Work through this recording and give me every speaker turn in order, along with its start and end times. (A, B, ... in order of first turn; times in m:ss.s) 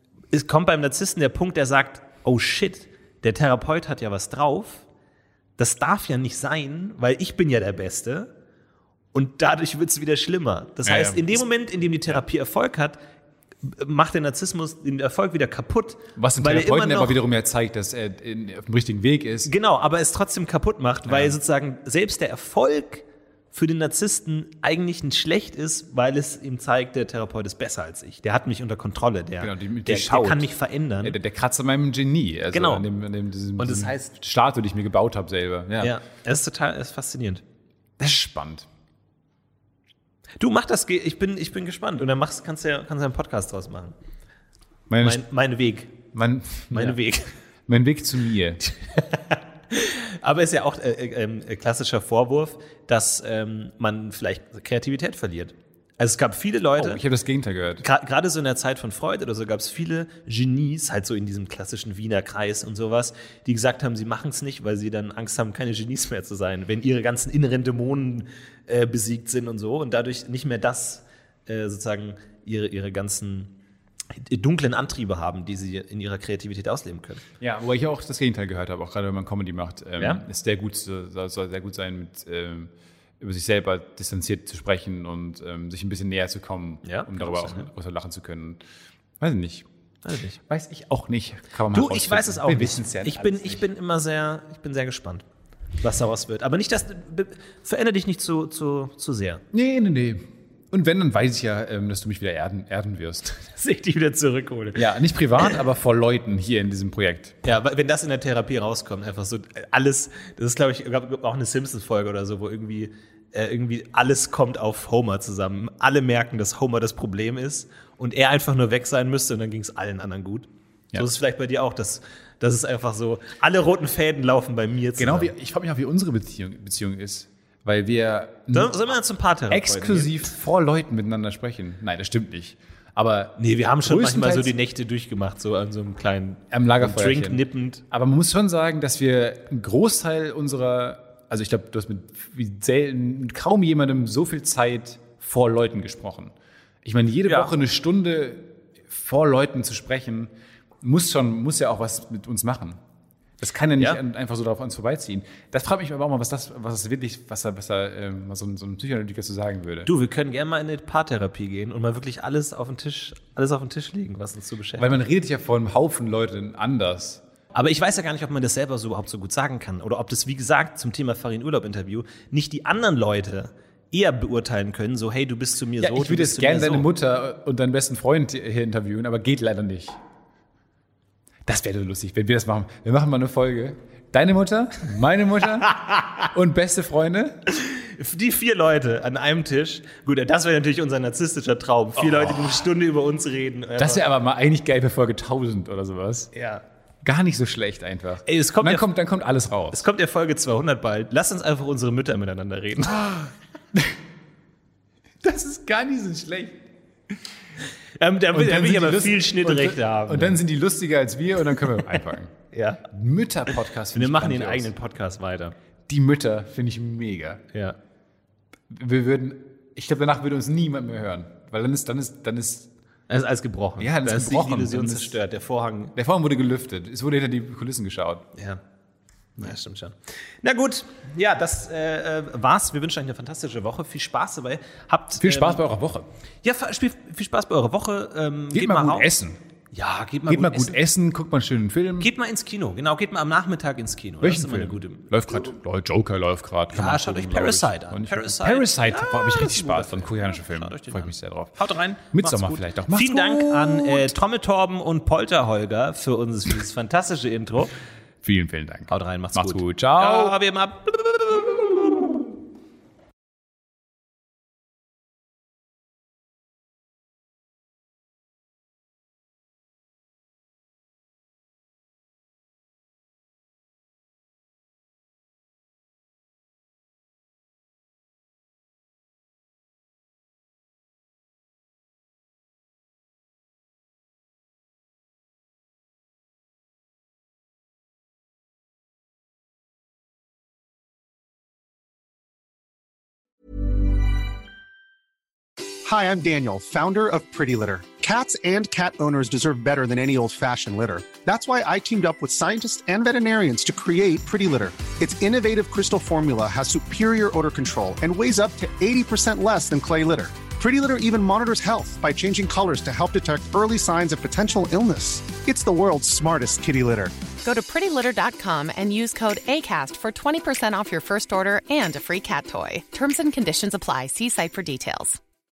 0:00.3-0:04.9 A
0:05.6-0:08.3 A
0:09.1-0:13.0 A
0:10.8-0:11.4 B
0:13.6-0:17.2 A
0:16.2-0:19.5 B
0:19.4-0:31.2 A
0:21.1-0:21.4 B
0:29.4-0:30.5 B
0:31.0-0:36.0 B
0:32.5-0:32.9 A
0:33.6-0:34.1 A
0:35.8-0:37.4 A
0:38.0-0:38.7 B
0:40.4-0:44.0 A
0:44.9-0:45.3 B
0:45.0-0:46.0 A
0:46.1-0:47.0 B
0:46.7-0:47.3 A
0:47.7-0:48.6 B
0:48.6-0:57.0 A
0:56.8-0:57.8 B
0:57.8-1:13.5 A
1:14.1-1:17.2 A
1:17.4-1:28.6 B
1:26.8-1:27.7 A
1:29.2-1:29.7 B
1:30.0-1:30.4 A
1:30.4-1:33.7 B
1:31.7-1:35.3 A
1:35.8-1:39.4 A
1:39.5-1:43.5 B
1:43.6-1:45.0 A
1:44.7-1:47.4 B
1:47.4-2:05.3 A
2:05.0-2:08.8 B
2:08.5-2:10.3 A
2:09.5-2:14.5 B
2:13.4-2:17.8 A
2:16.5-2:32.8 B
2:27.3-2:27.5 A
2:33.4-2:39.9 B
2:39.9-2:45.0 A
2:44.8-2:47.2 B
2:47.5-2:56.9 A
2:55.8-3:00.0 B
3:01.4-3:07.4 B
3:07.5-3:14.0 A
3:12.1-3:12.5 B
3:13.8-3:16.3 B
3:16.3-3:16.6 A
3:17.0-3:19.8 B
3:18.3-3:18.9 A
3:19.7-3:23.3 A
3:25.2-3:26.7 B
3:28.0-3:30.4 A
3:28.3-3:32.3 B
3:32.5-3:32.8 A
3:32.8-3:34.7 B
3:33.9-3:35.6 A
3:35.9-3:37.4 B
3:38.7-3:42.7 B
3:43.1-3:45.9 A
3:43.8-3:45.2 B
3:45.9-3:48.3 B
3:48.3-3:48.6 A
3:49.4-3:55.6 A
3:55.2-3:56.1 B
3:56.4-3:59.1 A
3:58.5-3:59.4 B
3:59.7-4:00.8 A
4:00.3-4:02.1 B
4:02.0-4:05.6 A
4:04.2-4:11.6 B
4:06.7-4:17.7 A
4:12.1-4:14.1 B
4:18.2-4:20.4 B
4:18.9-4:22.2 A
4:55.8-5:17.1 C
5:17.4-5:25.2 D